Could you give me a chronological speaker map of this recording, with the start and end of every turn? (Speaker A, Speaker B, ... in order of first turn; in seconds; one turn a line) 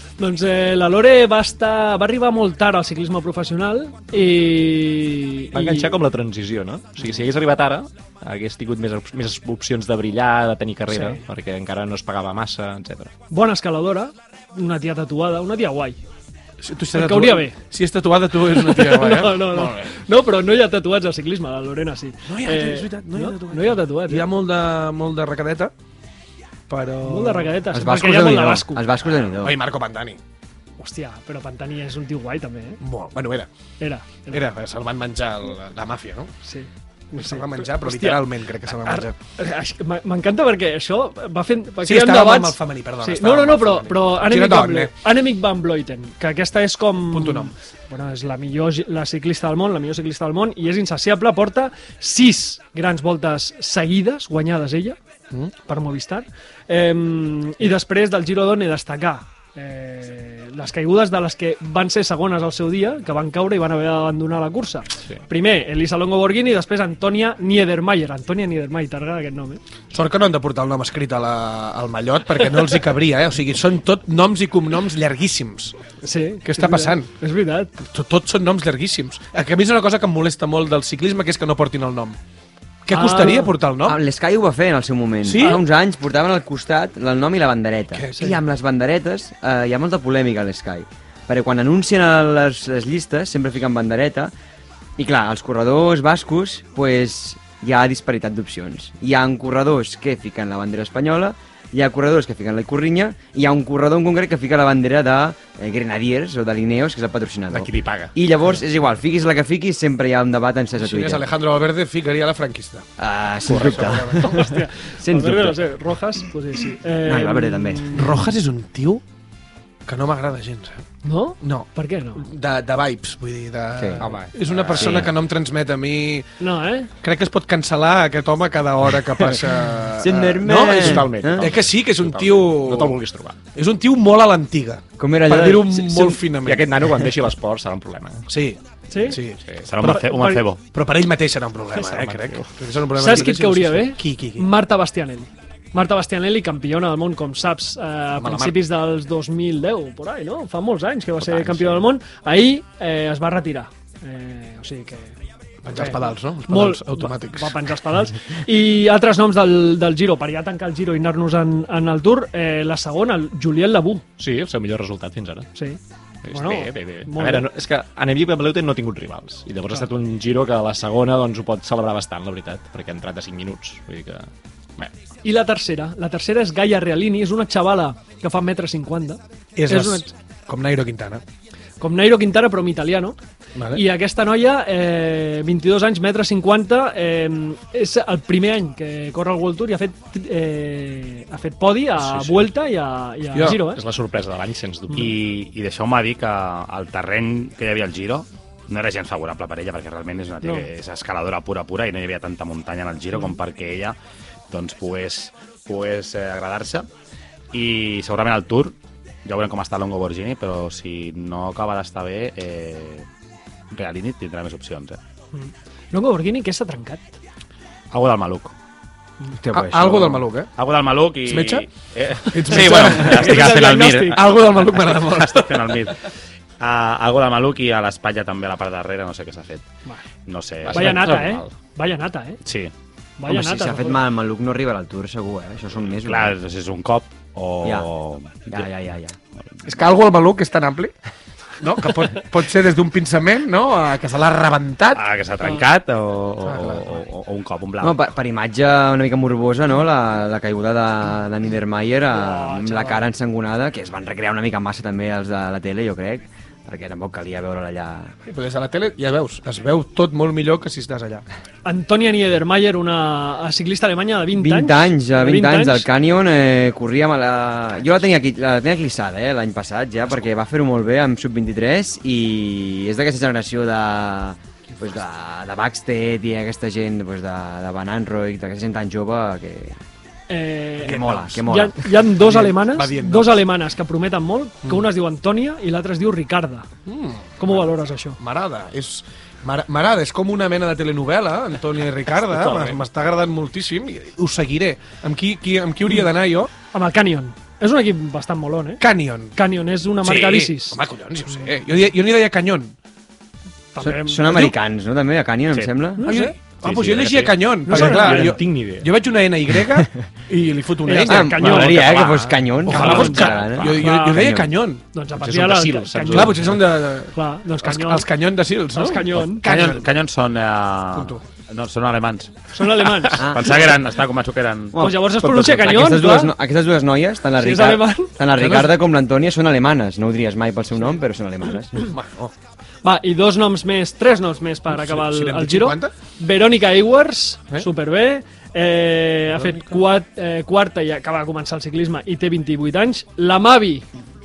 Speaker A: 0.2-6.0
Speaker B: 5.5-13.1
Speaker A: 10.9-11.2
Speaker A: 13.3-16.0
Speaker C: 16.6-19.9
Speaker A: 16.9-17.6
Speaker A: 18.5-24.2
Speaker C: 22.2-25.7
Speaker C: 26.7-27.5
Speaker A: 27.0-28.9
Speaker D: 27.7-29.6
Speaker C: 29.4-30.2
Speaker A: 30.8-32.8
Speaker C: 32.8-33.5
Speaker A: 33.8-34.4
Speaker C: 34.3-36.3
Speaker A: 36.4-38.3
Speaker C: 37.2-39.1
Speaker A: 38.8-55.0
Speaker C: 41.8-44.9
Speaker C: 47.1-47.5
Speaker A: 55.6-69.6
Speaker C: 69.9-75.8
Speaker A: 76.0-77.7
Speaker C: 76.4-77.1
Speaker C: 77.8-82.2
Speaker C: 82.8-84.0
Speaker A: 82.9-83.5
Speaker D: 83.8-94.3
Speaker C: 85.2-85.6
Speaker C: 87.9-88.3
Speaker D: 95.0-111.3
Speaker B: 107.5-108.1
Speaker C: 110.8-112.9
Speaker D: 113.0-115.6
Speaker C: 113.5-114.5
Speaker A: 114.2-118.2
Speaker D: 117.0-118.0
Speaker C: 117.9-119.0
Speaker C: 119.8-120.8
Speaker A: 121.0-122.2
Speaker C: 121.4-126.3
Speaker D: 123.8-124.1
Speaker B: 124.0-125.0
Speaker D: 124.7-125.1
Speaker A: 126.4-126.9
Speaker C: 127.0-133.0
Speaker D: 130.0-131.5
Speaker B: 130.7-133.4
Speaker C: 133.5-136.9
Speaker D: 135.0-136.1
Speaker B: 135.9-138.2
Speaker C: 138.3-140.0
Speaker A: 138.9-139.2
Speaker E: 139.6-140.6
Speaker A: 139.8-140.4
Speaker C: 140.7-144.5
Speaker B: 141.7-142.5
Speaker A: 142.9-155.1
Speaker C: 148.2-148.6
Speaker B: 151.2-151.9
Speaker C: 155.6-157.6
Speaker A: 155.7-164.0
Speaker B: 164.2-165.5
Speaker B: 166.2-174.9
Speaker A: 166.3-167.5
Speaker A: 175.2-180.1
Speaker C: 179.6-181.2
Speaker A: 181.8-183.2
Speaker C: 183.5-183.8
Speaker A: 183.7-193.8
Speaker B: 192.0-192.5
Speaker C: 193.3-193.6
Speaker B: 193.5-195.1
Speaker E: 194.9-203.9
Speaker A: 200.4-200.7
Speaker E: 204.5-206.9
Speaker E: 207.5-213.1
Speaker E: 213.7-215.0
Speaker A: 215.3-217.2
Speaker E: 217.9-218.5
Speaker D: 219.3-220.2
Speaker C: 219.5-220.5
Speaker E: 220.6-226.0
Speaker C: 221.2-221.7
Speaker C: 222.2-225.7
Speaker A: 222.5-224.2
Speaker E: 226.6-229.7
Speaker E: 230.2-231.1
Speaker B: 230.7-231.5
Speaker A: 230.7-232.4
Speaker E: 232.4-232.7
Speaker A: 233.2-234.0
Speaker D: 233.3-236.3
Speaker E: 236.0-238.7
Speaker D: 238.5-239.2
Speaker C: 239.6-240.9
Speaker C: 241.6-245.0
Speaker E: 244.9-248.0
Speaker C: 246.4-247.0
Speaker D: 247.8-258.1
Speaker A: 252.1-253.0
Speaker C: 258.2-261.2
Speaker A: 261.6-265.9
Speaker D: 264.3-279.8
Speaker A: 280.3-286.7
Speaker D: 280.8-281.9
Speaker C: 280.8-281.5
Speaker C: 282.1-283.4
Speaker C: 286.9-296.5
Speaker A: 287.4-288.2
Speaker B: 292.2-292.8
Speaker A: 296.7-298.8
Speaker C: 298.8-299.4
Speaker A: 299.4-300.8
Speaker C: 300.0-302.8
Speaker A: 303.7-304.2
Speaker D: 303.8-306.1
Speaker C: 304.2-304.5
Speaker A: 306.0-306.3
Speaker C: 306.0-311.9
Speaker E: 306.6-307.4
Speaker A: 307.7-308.4
Speaker B: 307.7-308.9
Speaker A: 310.8-312.0
Speaker D: 311.0-314.5
Speaker B: 311.7-312.9
Speaker C: 312.6-314.8
Speaker A: 312.7-314.4
Speaker A: 314.9-316.5
Speaker B: 315.1-316.6
Speaker C: 316.1-319.9
Speaker A: 317.1-318.1
Speaker A: 318.7-319.4
Speaker E: 319.3-325.0
Speaker C: 320.9-321.2
Speaker A: 322.5-323.3
Speaker D: 323.2-323.7
Speaker D: 324.7-331.9
Speaker A: 324.8-326.3
Speaker B: 325.2-325.5
Speaker A: 327.4-328.1
Speaker C: 328.3-328.8
Speaker C: 331.8-332.3
Speaker A: 332.8-343.9
Speaker C: 334.7-335.9